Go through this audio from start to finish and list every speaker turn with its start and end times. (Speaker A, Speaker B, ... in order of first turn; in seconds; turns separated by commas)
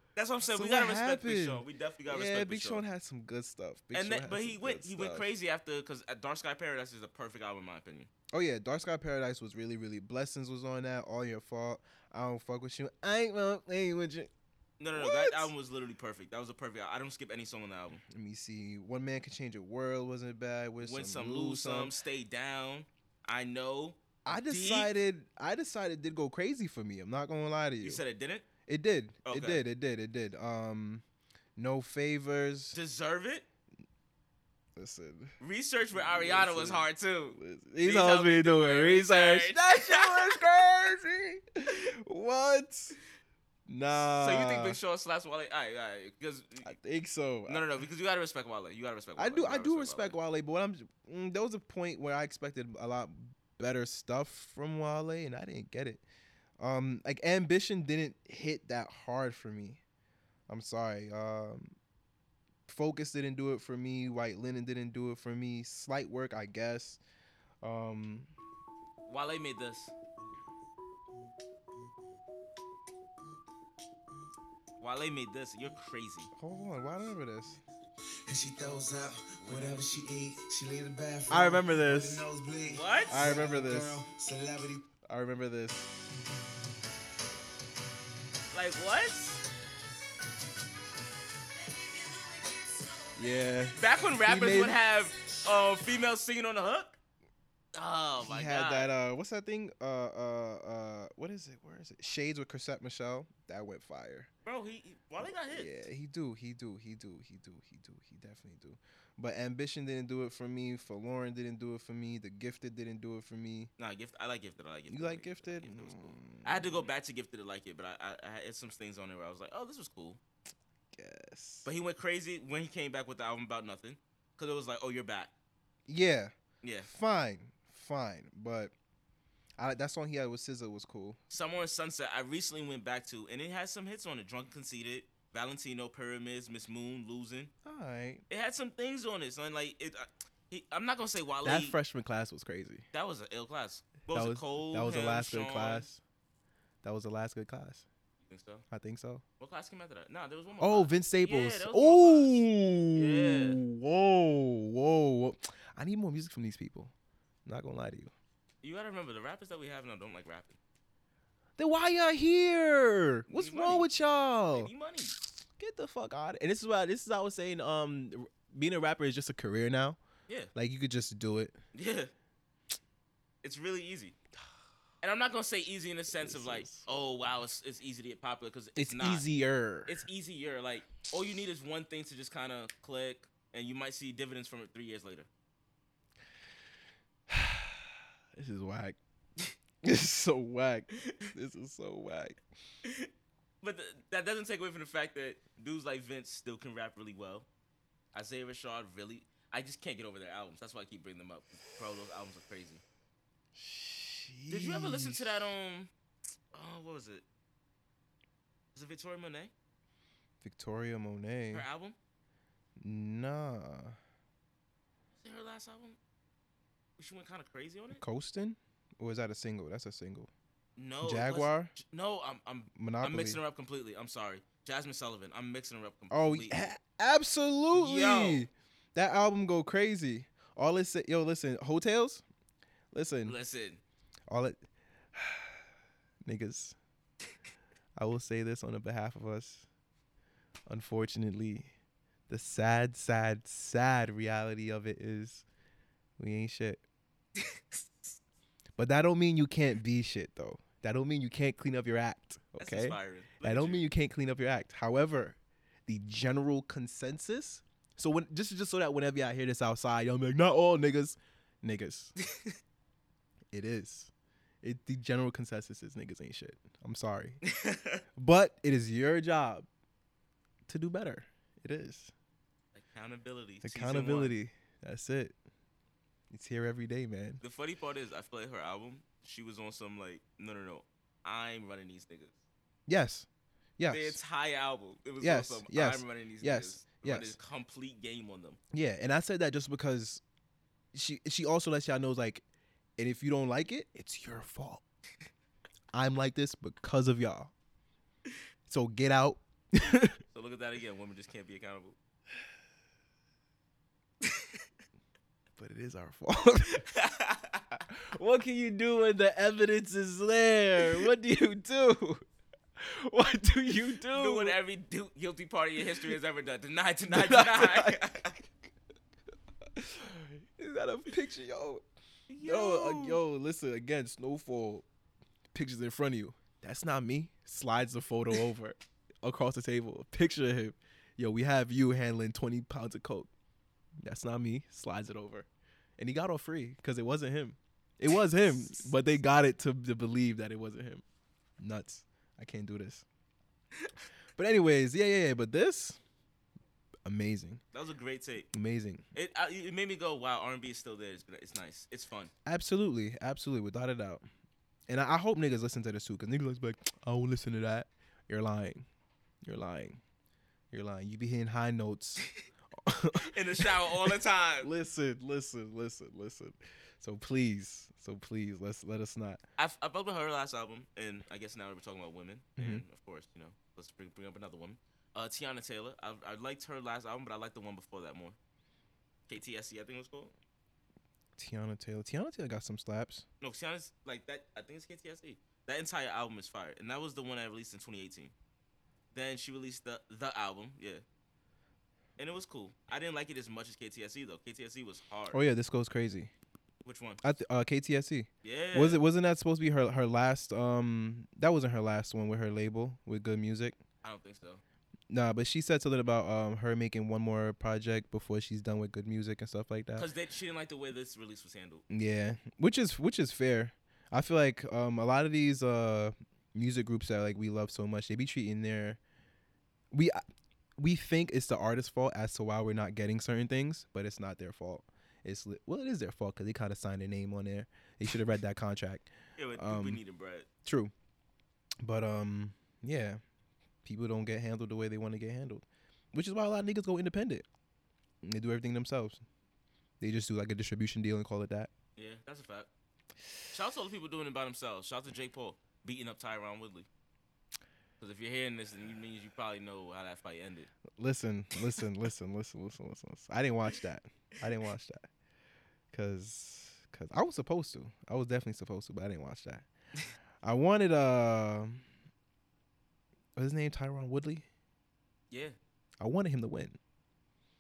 Speaker A: 0.2-2.8, Speaker B: 0.5-5.3, Speaker A: 3.9-8.1, Speaker B: 8.3-14.3, Speaker A: 14.8-18.0, Speaker B: 14.9-15.5, Speaker B: 18.1-21.9, Speaker A: 20.8-24.9, Speaker B: 24.2-28.0, Speaker A: 27.8-28.5, Speaker B: 28.7-31.0, Speaker A: 29.3-29.6, Speaker B: 31.6-32.8, Speaker A: 32.7-33.5, Speaker B: 34.8-35.4, Speaker A: 35.4-40.4, Speaker B: 35.9-43.0, Speaker B: 43.7-44.8, Speaker A: 44.0-46.7, Speaker B: 46.6-47.6, Speaker A: 47.5-50.2, Speaker B: 49.2-56.0, Speaker B: 56.6-59.8, Speaker B: 60.5-61.8, Speaker B: 62.7-67.0, Speaker B: 67.6-68.3, Speaker A: 69.1-69.9, Speaker A: 74.8-76.3, Speaker B: 76.4-77.6, Speaker C: 78.2-84.9, Speaker A: 79.4-79.8, Speaker B: 81.3-82.2, Speaker A: 82.7-83.2, Speaker B: 83.1-84.0, Speaker B: 85.0-85.9, Speaker A: 88.5-89.4, Speaker C: 91.7-93.6, Speaker B: 93.2-94.8, Speaker A: 93.8-97.0, Speaker A: 97.8-98.9, Speaker B: 98.2-104.3, Speaker A: 104.5-105.9, Speaker B: 105.2-113.7, Speaker A: 113.8-120.2, Speaker B: 114.9-116.9, Speaker B: 121.0-121.7, Speaker A: 121.7-125.3, Speaker B: 125.9-126.3, Speaker A: 126.6-126.9, Speaker B: 126.8-128.7, Speaker B: 129.6-131.2, Speaker A: 131.3-137.5, Speaker B: 137.7-138.2, Speaker A: 138.3-141.8, Speaker B: 141.4-142.8, Speaker A: 142.9-145.9, Speaker B: 144.1-146.0, Speaker B: 146.8-147.8, Speaker A: 148.3-148.7, Speaker B: 148.7-149.2, Speaker A: 149.4-153.6, Speaker B: 150.6-156.9, Speaker B: 157.4-158.1, Speaker A: 158.6-160.6, Speaker B: 161.6-164.7, Speaker A: 163.3-163.9, Speaker A: 164.5-165.2, Speaker B: 165.6-170.0, Speaker B: 170.6-171.6, Speaker A: 171.7-172.1, Speaker A: 173.4-174.2, Speaker A: 175.0-179.2, Speaker B: 176.1-176.9, Speaker B: 178.8-180.0, Speaker A: 179.9-185.3, Speaker B: 187.3-189.0, Speaker B: 189.8-192.4, Speaker A: 192.8-193.1, Speaker A: 193.6-197.5, Speaker A: 198.1-202.8, Speaker B: 203.6-205.5, Speaker A: 204.5-205.9, Speaker A: 206.5-207.2, Speaker A: 208.7-209.5, Speaker B: 210.4-211.7, Speaker A: 211.5-212.0, Speaker B: 212.8-214.0, Speaker A: 215.2-216.0, Speaker A: 217.0-218.0, Speaker B: 217.9-220.3, Speaker A: 220.8-226.7, Speaker B: 221.0-221.7, Speaker B: 222.8-223.4, Speaker B: 226.1-232.2, Speaker A: 227.7-228.5, Speaker B: 232.9-233.4, Speaker A: 233.2-233.8, Speaker B: 234.3-234.6, Speaker B: 235.1-235.6, Speaker B: 236.2-236.8, Speaker B: 238.0-239.7, Speaker B: 240.7-241.7, Speaker B: 242.3-245.4, Speaker B: 246.2-246.8, Speaker A: 247.4-248.2, Speaker B: 248.8-262.1, Speaker A: 252.6-253.8, Speaker A: 262.3-262.6, Speaker B: 263.5-264.1, Speaker B: 264.6-267.4, Speaker A: 267.5-268.0, Speaker B: 268.2-269.7, Speaker B: 270.7-272.1, Speaker A: 272.8-274.4, Speaker B: 273.6-275.4, Speaker B: 276.3-277.4, Speaker A: 277.4-282.3, Speaker B: 282.9-283.3, Speaker B: 283.8-284.2, Speaker A: 283.9-288.6, Speaker B: 285.2-287.4, Speaker B: 288.7-290.2, Speaker B: 290.9-292.4, Speaker B: 293.0-294.8, Speaker B: 295.9-297.5, Speaker B: 298.7-300.2, Speaker A: 300.2-302.0, Speaker A: 304.2-304.6, Speaker B: 305.6-306.9, Speaker A: 306.7-307.7, Speaker B: 307.9-312.2, Speaker B: 312.8-314.6, Speaker A: 314.1-318.4, Speaker B: 317.1-318.1, Speaker B: 319.7-321.9, Speaker A: 322.3-323.2, Speaker B: 322.4-324.9, Speaker B: 325.5-333.3, Speaker B: 334.0-335.5, Speaker B: 336.0-341.0, Speaker B: 341.6-343.1, Speaker B: 344.4-346.0, Speaker B: 347.1-347.6, Speaker A: 347.7-348.5, Speaker B: 348.5-349.1, Speaker A: 349.1-352.3, Speaker B: 352.5-354.2, Speaker B: 354.9-358.9, Speaker B: 359.4-360.0, Speaker B: 360.7-362.3, Speaker B: 362.8-363.6, Speaker A: 363.1-364.7, Speaker B: 364.6-369.4, Speaker A: 369.6-378.4, Speaker B: 372.6-372.8, Speaker A: 379.3-380.3, Speaker B: 381.4-383.2, Speaker A: 383.4-388.3, Speaker A: 389.1-391.0, Speaker A: 392.2-395.4, Speaker B: 395.3-396.3, Speaker A: 396.8-397.2, Speaker B: 397.2-403.8, Speaker A: 398.4-399.0, Speaker A: 404.0-404.6, Speaker B: 405.1-410.1, Speaker A: 409.9-411.8, Speaker B: 411.9-419.0, Speaker B: 419.9-420.2, Speaker B: 420.8-430.0, Speaker A: 429.4-430.5, Speaker B: 430.6-430.9, Speaker B: 431.8-433.2, Speaker B: 433.8-437.5, Speaker B: 438.2-439.2, Speaker B: 440.0-441.7, Speaker A: 442.0-442.7, Speaker A: 443.5-446.9, Speaker A: 448.0-450.7, Speaker B: 451.0-455.1, Speaker B: 455.9-459.6, Speaker B: 460.4-461.8, Speaker B: 463.4-464.5, Speaker A: 465.3-465.6, Speaker B: 466.0-466.8